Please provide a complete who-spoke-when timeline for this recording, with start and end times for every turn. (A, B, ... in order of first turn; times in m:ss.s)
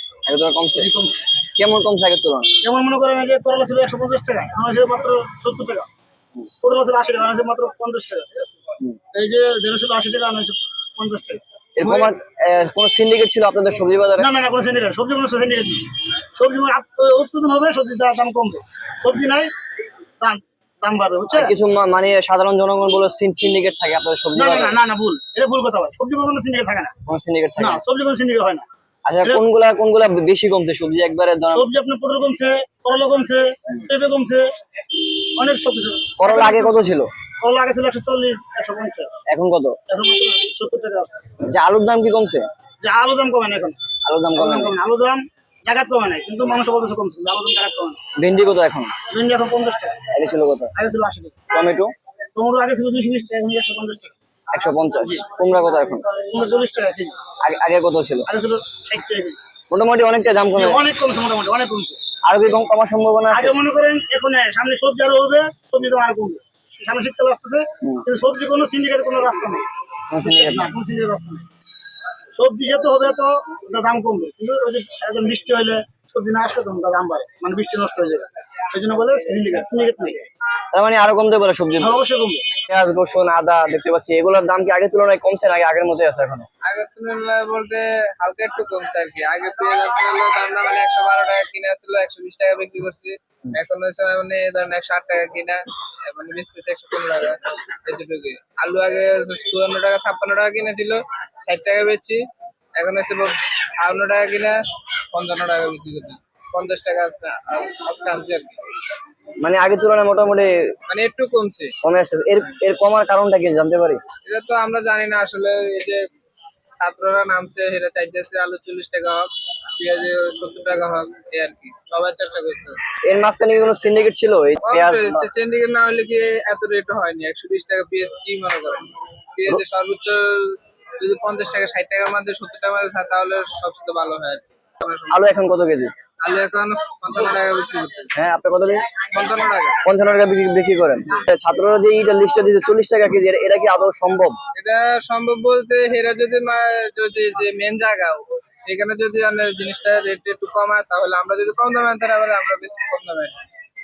0:00.3-0:00.9 A
0:00.8-0:01.2 B
0:01.6-0:02.5 A
0:02.6-0:05.9 B
0:06.6-0:12.2 B
0:11.8-0:14.3 A
0:14.2-0:19.5 B
0:20.2-0:21.5 B
0:21.3-0:24.8 A
0:24.3-0:26.9 B
0:27.0-0:27.8 A
0:27.6-0:28.7 B
0:29.1-0:31.7 A
0:31.5-0:34.5 B
0:35.4-0:36.9 B
0:36.2-0:37.1 A
0:37.4-0:39.1 B
0:39.3-0:39.8 A
0:39.9-0:41.2 B
0:41.4-0:42.4 A
0:42.8-0:43.8 B
0:44.0-0:44.7 A
0:44.4-0:48.0 B
0:48.2-0:48.9 A
0:49.1-0:50.0 B
0:50.1-0:50.7 A
0:50.7-0:51.4 B
0:51.5-0:51.9 A
0:52.3-0:54.1 B
0:54.5-0:56.0 A
0:56.1-0:57.1 B
0:57.4-0:58.3 A
0:58.3-0:59.4 B
0:59.7-1:00.8 A
1:00.5-1:02.0 B
1:02.2-1:03.6 A
1:03.3-1:11.4 B
1:10.1-1:10.7 A
1:12.3-1:20.2 B
1:20.7-1:22.0 A
1:21.8-1:22.4 B
1:22.6-1:26.5 A
1:26.6-1:42.2 C
1:42.8-1:44.6 C
1:45.1-1:48.6 C
1:49.4-1:50.6 A
1:50.9-1:51.7 C
1:51.8-1:54.0 A
1:54.2-1:56.1 C
1:56.8-2:02.8 C
2:03.0-2:05.3 A
2:04.6-2:15.3 C
2:15.1-2:15.9 A
2:16.2-2:18.1 C
2:18.2-2:19.1 A
2:19.1-2:19.8 C
2:19.8-2:24.4 A
2:24.5-2:33.3 C